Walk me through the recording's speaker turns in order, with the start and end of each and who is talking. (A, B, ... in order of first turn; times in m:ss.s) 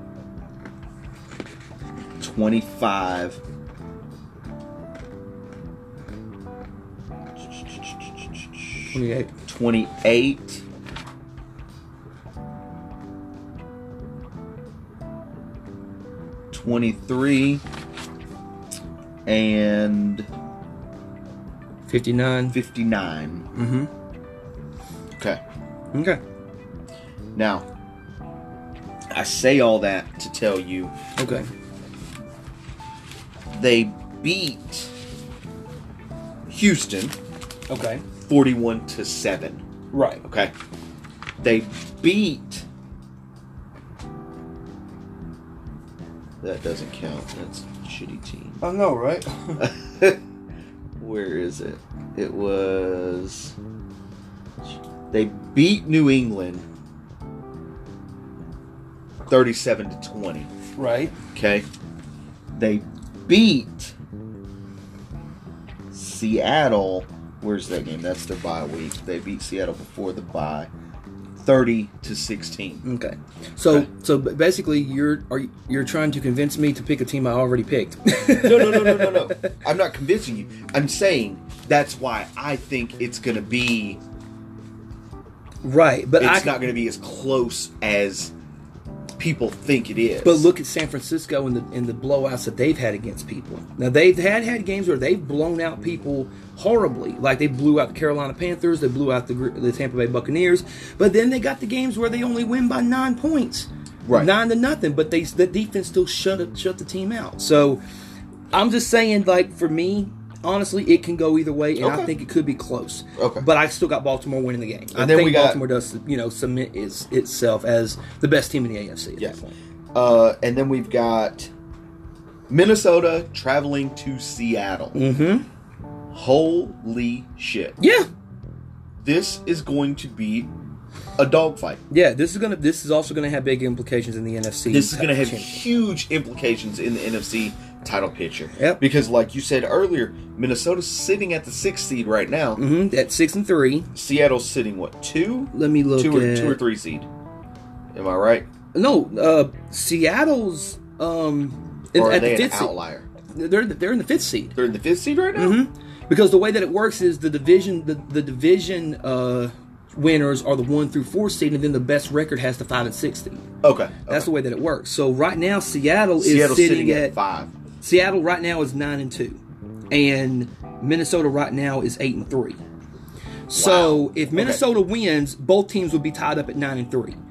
0:02.2-0:03.4 A
0:07.5-0:08.8 A
0:08.9-0:09.3 B
0:09.4-0:10.6 A
0:16.5-0:17.6 A
0:19.2-0:20.3 A
0:21.9-0:22.6 B
0:22.5-0:23.5 A
0:23.5-0:23.9 B
0:25.9-0:26.2 B
0:27.3-0:27.6 A
0:29.1-0:30.9 A
0:31.2-0:31.5 B
0:33.5-0:34.9 A
0:36.5-0:37.2 A
0:37.7-0:38.0 B
0:38.2-0:39.6 A
0:39.9-0:40.2 B
0:40.2-0:40.5 A
0:41.4-0:42.7 A
0:46.4-0:48.6 A
0:48.6-0:49.6 B
0:49.6-0:50.2 A
0:51.0-0:53.5 A
0:55.1-0:56.7 A
0:59.3-1:00.5 A
1:00.8-1:01.1 B
1:01.3-1:01.7 A
1:02.5-1:03.9 A
1:05.9-1:10.7 A
1:11.4-1:12.8 A
1:12.8-1:19.5 B
1:18.4-1:24.0 A
1:25.6-1:26.6 B
1:26.2-1:28.3 A
1:29.2-1:30.5 A
1:30.2-1:47.8 B
1:44.0-1:44.3 A
1:48.5-1:59.5 B
1:51.8-1:52.1 A
1:53.2-1:53.5 A
1:54.9-1:55.6 A
1:59.9-2:01.5 A
2:02.5-2:05.0 A
2:04.9-2:05.4 B
2:06.1-2:07.8 A
2:07.8-2:08.1 B
2:09.0-2:10.5 A
2:11.2-2:11.8 A
2:11.9-2:15.6 B
2:14.7-2:22.6 A
2:22.6-2:23.9 B
2:23.9-2:27.1 A
2:25.5-2:26.6 B
2:27.9-2:28.5 A
2:28.7-2:32.7 B
2:31.9-2:33.1 A
2:33.3-2:34.6 B
2:34.6-2:35.6 A
2:35.3-2:43.4 B
2:43.6-2:44.3 A
2:44.1-2:47.1 B
2:46.2-2:47.5 A
2:47.8-2:52.6 B
2:53.5-2:57.2 B
2:53.5-2:54.6 A